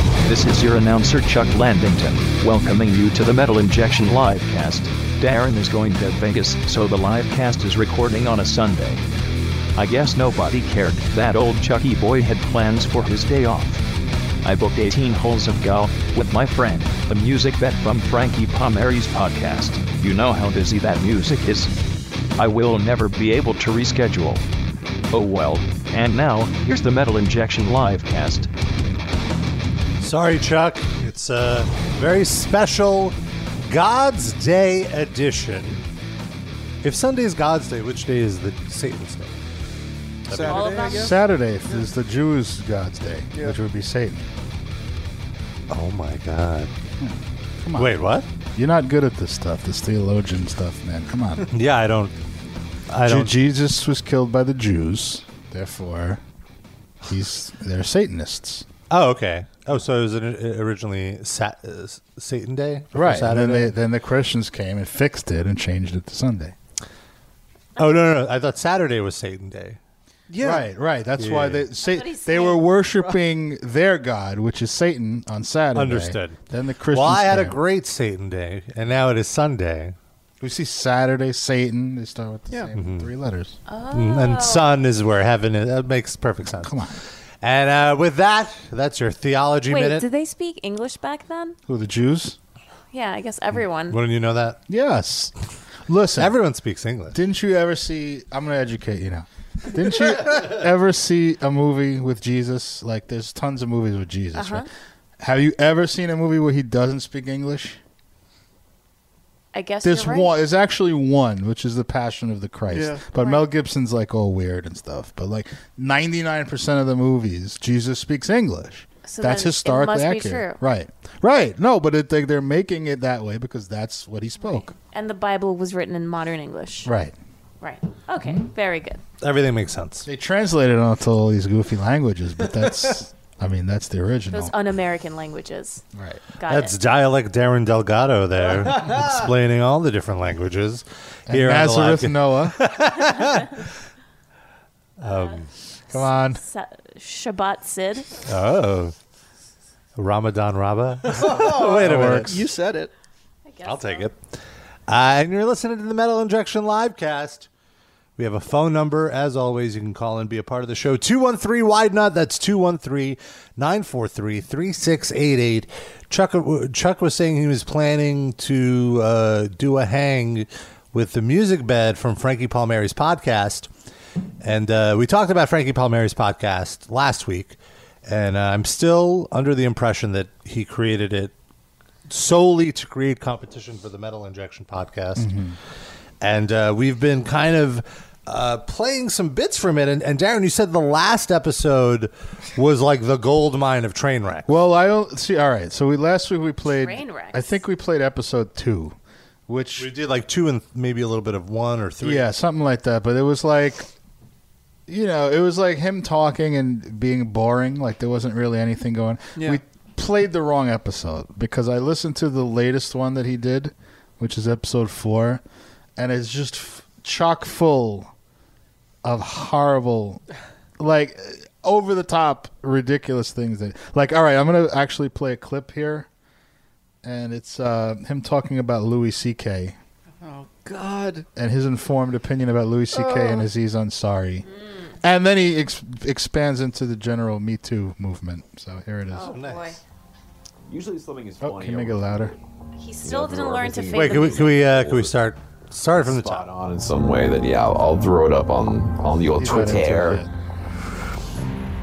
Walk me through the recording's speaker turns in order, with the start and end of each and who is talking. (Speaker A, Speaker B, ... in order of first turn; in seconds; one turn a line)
Speaker A: 0.2-9.0
Speaker A: 9.8-13.8
Speaker A: 14.4-21.7
Speaker A: 22.4-24.4
Speaker A: 25.1-28.5
Speaker B: 30.0-35.8
Speaker B: 36.8-39.4
Speaker B: 40.3-40.8
Speaker C: 40.3-41.9
Speaker D: 40.5-41.3
Speaker E: 40.8-44.3
Speaker B: 45.7-46.7
Speaker E: 47.0-48.0
Speaker B: 47.8-48.3
Speaker E: 48.5-51.5
Speaker B: 51.5-52.1
Speaker B: 52.9-53.4
Speaker E: 53.0-56.2
Speaker E: 57.0-58.6
Speaker B: 58.9-63.8
Speaker E: 62.9-66.6
Speaker B: 67.8-69.8
Speaker C: 70.3-70.7
Speaker E: 70.4-77.6
Speaker B: 71.2-71.7
Speaker D: 71.8-72.7
Speaker B: 75.8-76.4
Speaker B: 76.9-80.0
Speaker E: 80.4-83.6
Speaker B: 82.7-83.1
Speaker D: 83.7-84.7
Speaker B: 83.9-86.8
Speaker E: 86.5-87.0
Speaker B: 87.4-90.1
Speaker D: 89.7-91.6
Speaker E: 91.7-92.4
Speaker D: 92.9-94.0
Speaker B: 93.9-94.6
Speaker E: 94.7-95.3
Speaker E: 95.9-96.4
Speaker B: 96.2-97.2
Speaker E: 97.1-104.7
Speaker D: 104.3-104.7
Speaker E: 105.2-107.8
Speaker D: 109.5-110.3
Speaker E: 109.8-124.7
Speaker C: 112.7-113.0
Speaker D: 113.2-113.5
Speaker D: 119.1-120.6
Speaker D: 124.4-126.9
Speaker E: 126.8-127.2
Speaker D: 127.6-129.0
Speaker B: 129.2-130.1
Speaker E: 130.1-134.5
Speaker D: 134.3-135.8
Speaker E: 135.9-136.2
Speaker D: 136.4-136.8
Speaker B: 136.5-143.7
Speaker E: 141.3-142.7
Speaker B: 145.0-145.5
Speaker D: 145.1-148.2
Speaker E: 145.9-146.4
Speaker B: 148.2-148.9
Speaker B: 150.0-152.4
Speaker C: 151.1-152.9
Speaker E: 151.8-152.5
Speaker D: 153.4-154.1
Speaker B: 153.6-154.2
Speaker B: 154.9-157.5
Speaker B: 158.2-173.7
Speaker B: 174.4-181.3
Speaker B: 182.1-185.3
Speaker E: 185.2-185.6
Speaker B: 186.2-194.6
Speaker E: 194.5-199.0
Speaker D: 196.7-197.6
Speaker E: 199.5-199.9
Speaker B: 199.8-202.3
Speaker E: 202.0-203.9
Speaker E: 204.9-215.4
Speaker C: 209.4-209.6
Speaker E: 216.0-218.1
Speaker E: 219.0-220.2
Speaker E: 220.8-226.1
Speaker E: 227.0-229.8
Speaker C: 230.2-231.3
Speaker E: 231.4-234.5
Speaker C: 232.9-233.5
Speaker E: 235.0-239.4
Speaker D: 239.1-239.8
Speaker B: 239.2-239.8
Speaker F: 240.7-242.4
Speaker E: 241.4-242.3
Speaker D: 242.8-244.6
Speaker F: 243.0-245.2
Speaker B: 243.9-246.5
Speaker F: 246.0-250.2
Speaker E: 249.4-250.3